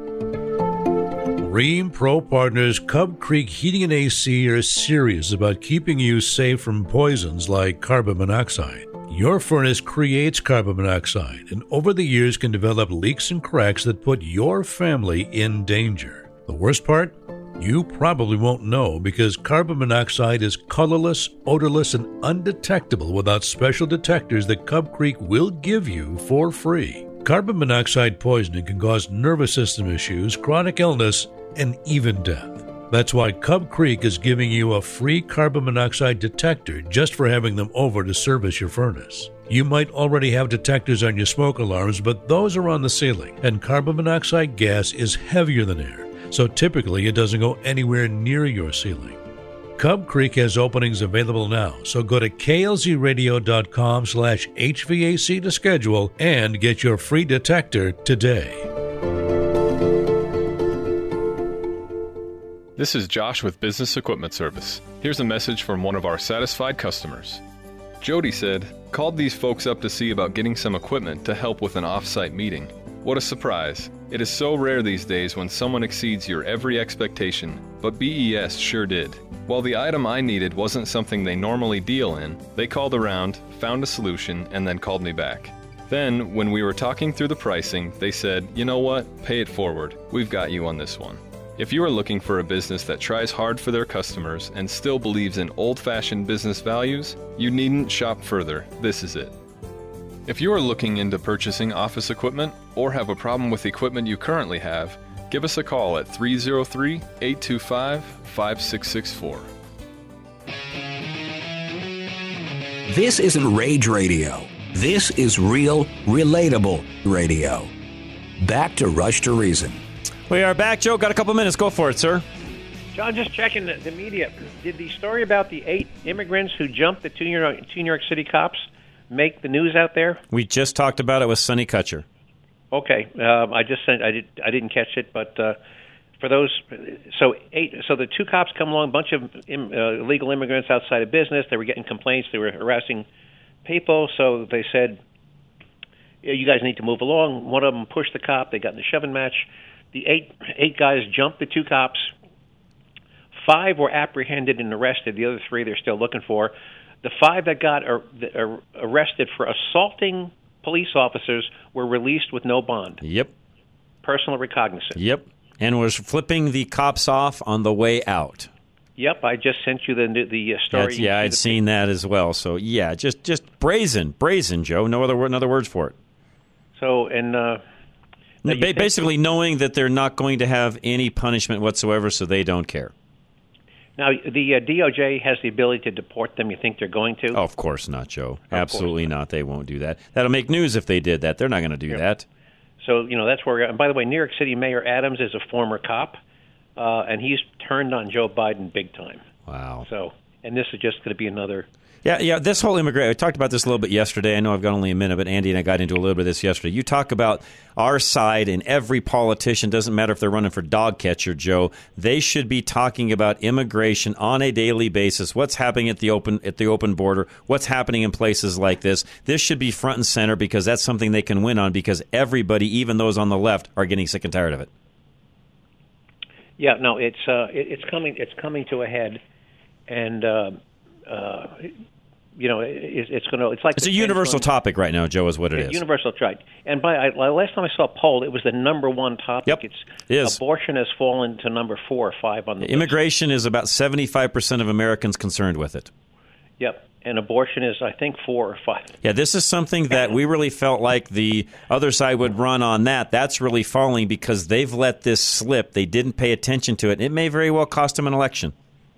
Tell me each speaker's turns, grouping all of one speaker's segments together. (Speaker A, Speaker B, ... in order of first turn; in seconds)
Speaker A: 1.4-49.2, 49.8-58.7
Speaker B: 62.8-67.4, 68.0-99.3, 100.2-109.5
Speaker C: 112.8-117.7, 118.4-119.8
Speaker D: 120.3-122.2, 130.3-132.0, 163.0-163.3, 164.9-168.5, 170.7-175.9, 178.4-182.9, 187.3-192.2, 199.5-199.8, 202.0-224.7, 233.8-235.8, 239.4-240.4, 242.6-245.9, 249.0-258.5
Speaker E: 122.9-130.2, 132.7-135.6, 136.2-143.1, 143.6-145.0, 146.2-152.1, 153.3-163.0, 164.0-165.0, 169.0-171.6, 176.8-177.6, 178.4-179.0, 184.0-187.4, 188.5-189.1, 192.8-196.2, 196.8-199.2, 199.8-201.7, 226.6-229.2, 229.9-231.7, 232.3-234.5, 235.5-243.0, 246.6-248.9